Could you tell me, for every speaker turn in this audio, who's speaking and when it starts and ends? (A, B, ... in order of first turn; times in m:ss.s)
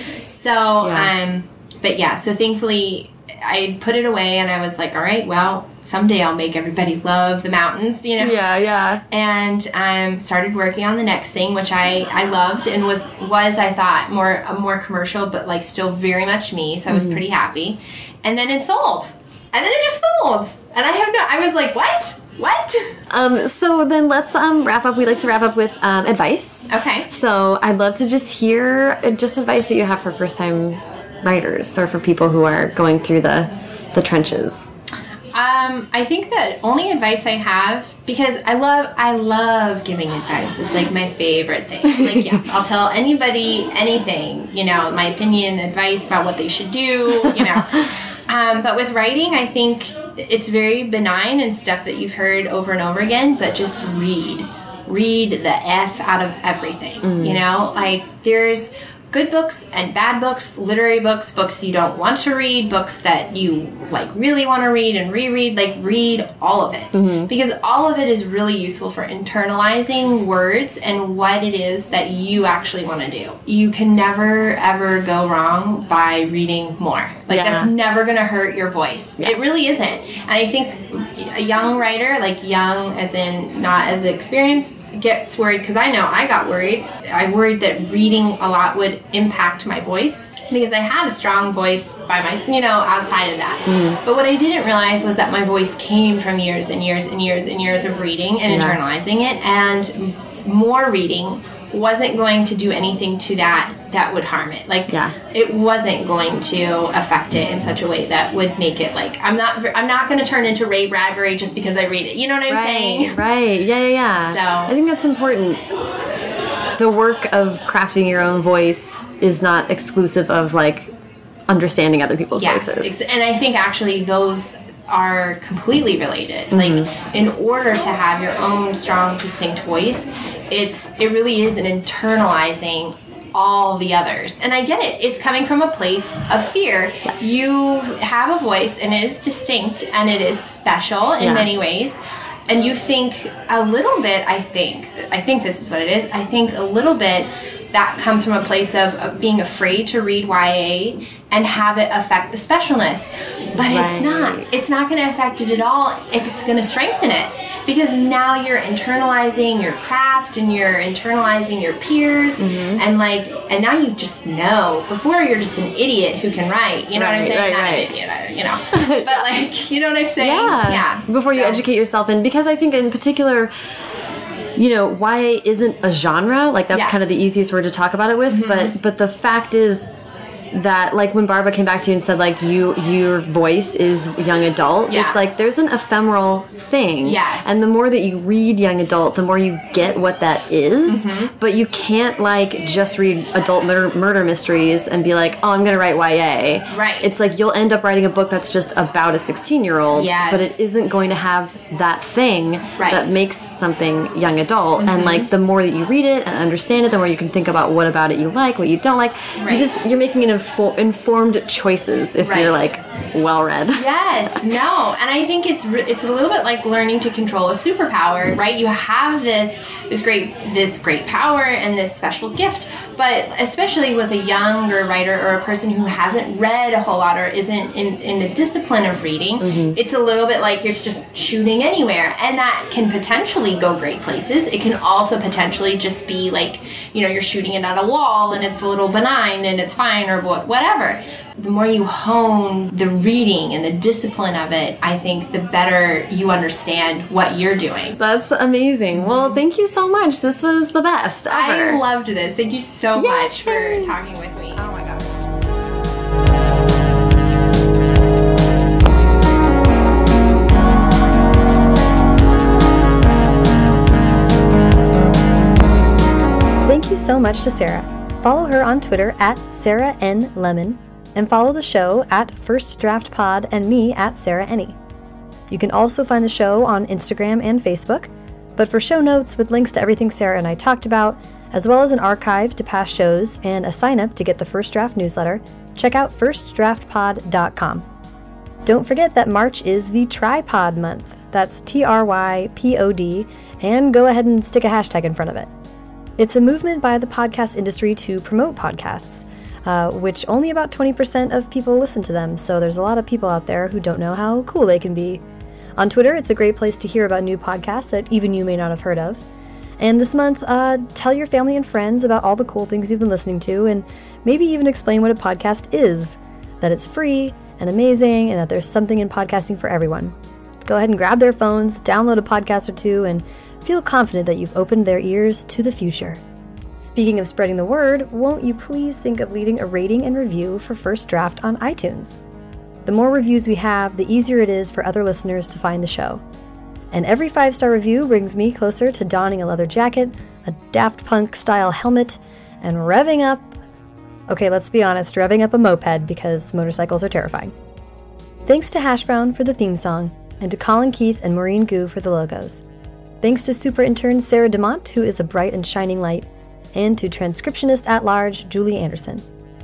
0:00.3-0:08.4 A
0:00.8-0:01.1 B
0:08.2-0:09.0 B
0:09.1-0:23.0 A
0:16.9-0:17.2 B
0:23.1-0:34.7 B
0:26.7-0:27.1 A
0:35.3-1:53.2 A
0:41.8-0:42.4 B
0:47.2-0:47.6 B
0:57.0-0:57.4 B
1:06.9-1:07.3 B
1:17.3-1:17.7 B
1:33.6-1:34.0 B
1:38.5-1:38.8 B
1:44.9-1:45.1 B
1:52.5-1:55.6 B
1:54.2-1:54.7 A
1:56.8-2:00.9 B
2:01.5-2:02.9 B
2:02.3-2:51.6 A
2:06.5-2:06.9 B
2:21.2-2:21.5 B
2:33.6-2:34.5 B
2:42.4-2:42.8 B
2:46.9-2:47.9 B
2:48.7-2:49.3 B
2:50.2-2:53.5 B
2:54.6-2:59.9 B
2:56.7-2:57.1 A
2:58.3-2:58.7 A
3:00.5-3:33.9 B
3:04.9-3:05.2 A
3:07.0-3:07.6 A
3:10.9-3:11.3 A
3:16.7-3:17.2 A
3:19.9-3:20.6 A
3:22.8-3:23.2 A
3:24.8-3:25.3 A
3:29.4-3:29.7 A
3:32.2-3:32.8 A
3:33.7-4:08.0 A
3:49.4-3:49.8 B
4:08.0-4:11.8 B
4:09.0-4:09.4 A
4:11.3-4:15.0 A
4:13.0-4:13.9 B
4:26.6-4:34.8 C
4:35.5-4:47.8 C
4:48.6-4:55.5 C
4:56.2-5:05.2 C
5:05.8-5:09.2 C
5:09.8-5:26.2 C
5:26.8-5:32.2 C
5:32.8-5:36.2 C
5:36.9-5:43.5 C
5:44.3-5:47.5 C
5:48.4-5:52.6 C
5:53.2-5:59.2 C